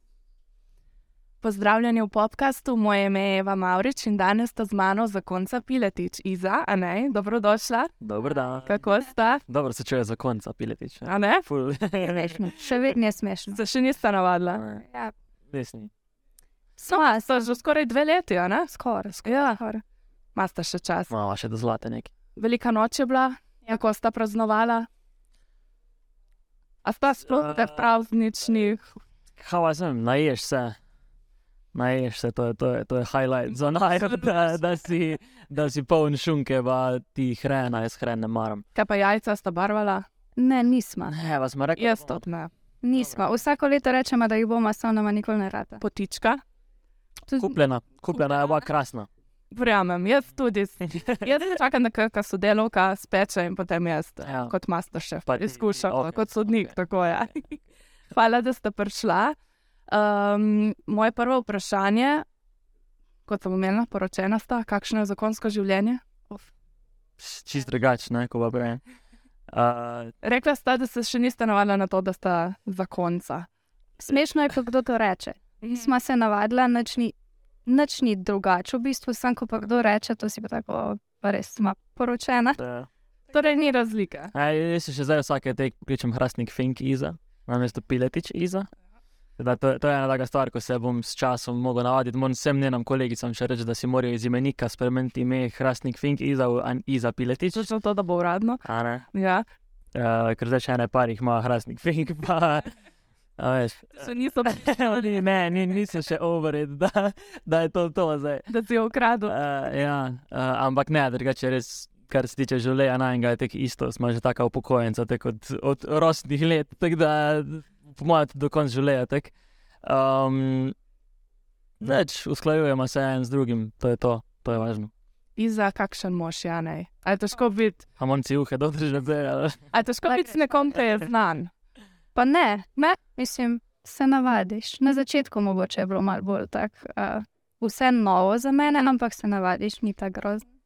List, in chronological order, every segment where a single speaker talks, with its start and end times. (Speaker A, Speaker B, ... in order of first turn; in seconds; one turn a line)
Speaker A: 1.4-7.9
Speaker B: 8.0-8.7
Speaker A: 8.7-9.4
Speaker B: 9.5-12.6
Speaker A: 11.1-11.5
Speaker C: 12.1-13.6
Speaker A: 13.5-14.7
Speaker B: 14.6-14.8
Speaker C: 14.8-15.1
Speaker B: 15.5-15.9
Speaker C: 16.8-17.4
Speaker A: 16.9-18.7
Speaker C: 18.7-19.8
Speaker A: 19.2-19.6
Speaker A: 20.4-21.1
Speaker B: 21.1-22.1
Speaker A: 22.4-24.9
Speaker A: 26.8-28.9
Speaker B: 29.4-30.8
Speaker B: 31.7-38.6
Speaker A: 38.8-40.1
Speaker C: 40.4-41.1
Speaker B: 41.1-42.2
Speaker A: 41.8-42.5
Speaker C: 42.8-45.8
Speaker A: 45.8-46.4
Speaker C: 47.3-47.6
Speaker B: 47.4-49.1
Speaker A: 49.5-57.5
Speaker B: 51.0-51.2
Speaker B: 54.2-54.5
Speaker B: 55.3-56.8
Speaker A: 58.1-59.4
Speaker A: 59.9-62.2
Speaker A: 63.3-66.0
Speaker B: 67.2-68.8
Speaker B: 69.5-70.1
Speaker A: 70.2-73.5
Speaker C: 74.0-82.6
Speaker A: 75.6-75.9
Speaker B: 82.6-82.9
Speaker A: 83.3-84.3
Speaker B: 84.3-88.7
Speaker B: 89.4-97.7
Speaker A: 97.5-99.5
Speaker B: 98.7-99.0
Speaker B: 99.9-102.7
Speaker B: 103.4-108.5
Speaker A: 103.9-104.8
Speaker A: 108.5-109.3
Speaker B: 109.3-120.8
Speaker B: 121.8-124.9
Speaker A: 125.4-127.8
Speaker B: 128.0-129.6
Speaker A: 129.7-131.5
Speaker C: 132.2-140.5